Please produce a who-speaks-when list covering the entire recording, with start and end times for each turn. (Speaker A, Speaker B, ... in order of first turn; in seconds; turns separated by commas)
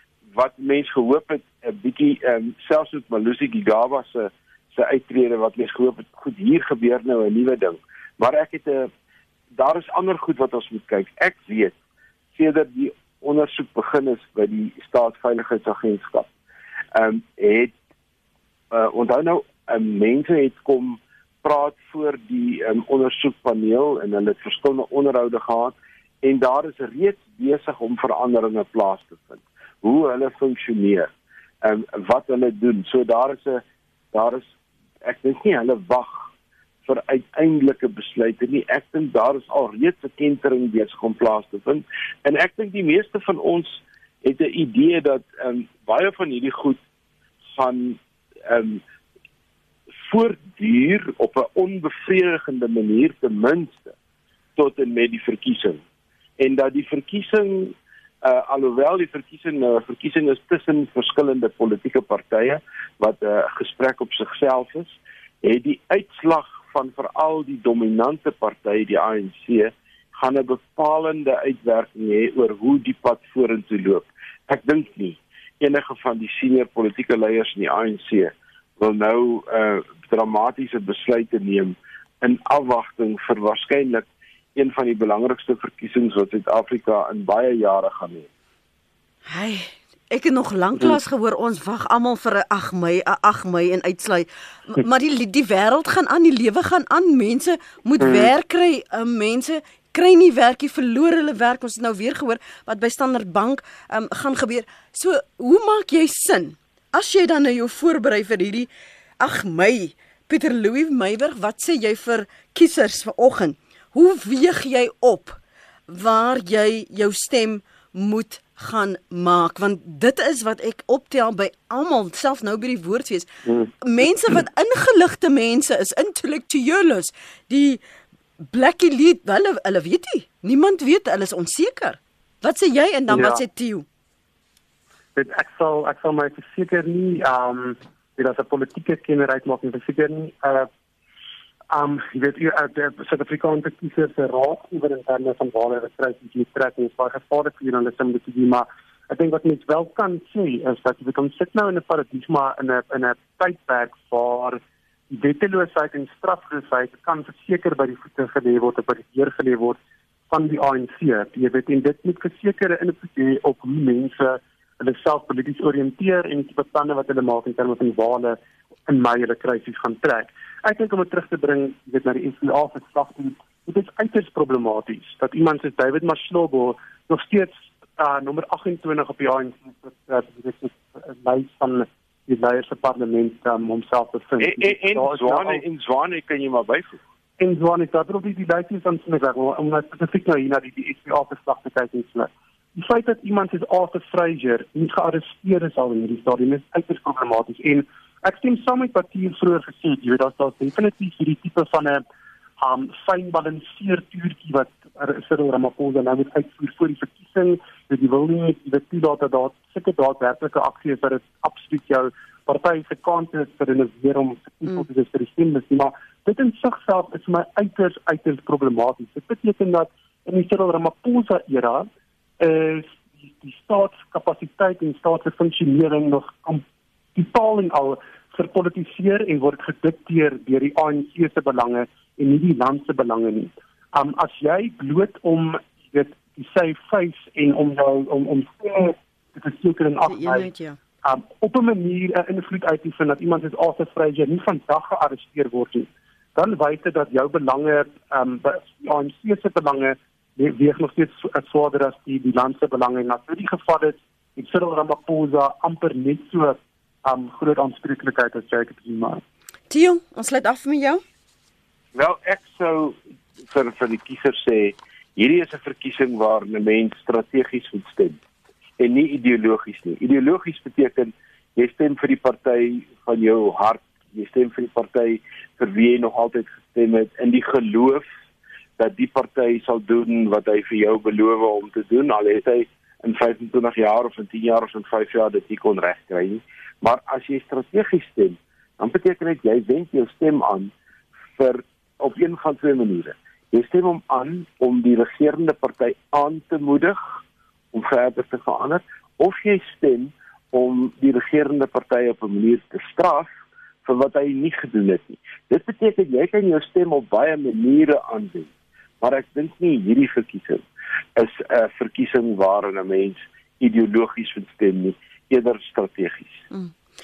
Speaker A: 0.3-8.9, Speaker A: 9.5-11.8, Speaker A: 12.3-16.3, Speaker A: 16.9-17.7, Speaker A: 18.7-31.1, Speaker A: 31.6-34.5, Speaker A: 35.0-36.3, Speaker A: 36.9-46.8, Speaker A: 47.5-48.8, Speaker A: 49.9-54.0, Speaker A: 54.6-55.8, Speaker A: 56.4-88.3, Speaker B: 89.3-108.7, Speaker C: 98.0-98.3, Speaker B: 109.2-123.3, Speaker C: 123.5-123.7, Speaker B: 123.8-127.8, Speaker B: 128.5-133.8, Speaker C: 133.1-133.4, Speaker C: 135.2-140.7, Speaker C: 141.7-159.8, Speaker C: 160.3-185.6, Speaker A: 184.4-187.0, Speaker C: 187.4-202.0, Speaker C: 202.6-221.9, Speaker C: 222.4-226.6, Speaker C: 227.2-240.5, Speaker B: 240.1-240.8, Speaker C: 241.0-259.2, Speaker B: 259.7-261.0, Speaker A: 261.9-268.2, Speaker A: 268.8-278.1, Speaker A: 278.8-290.7, Speaker A: 291.4-297.2, Speaker A: 297.7-303.3, Speaker A: 303.9-316.4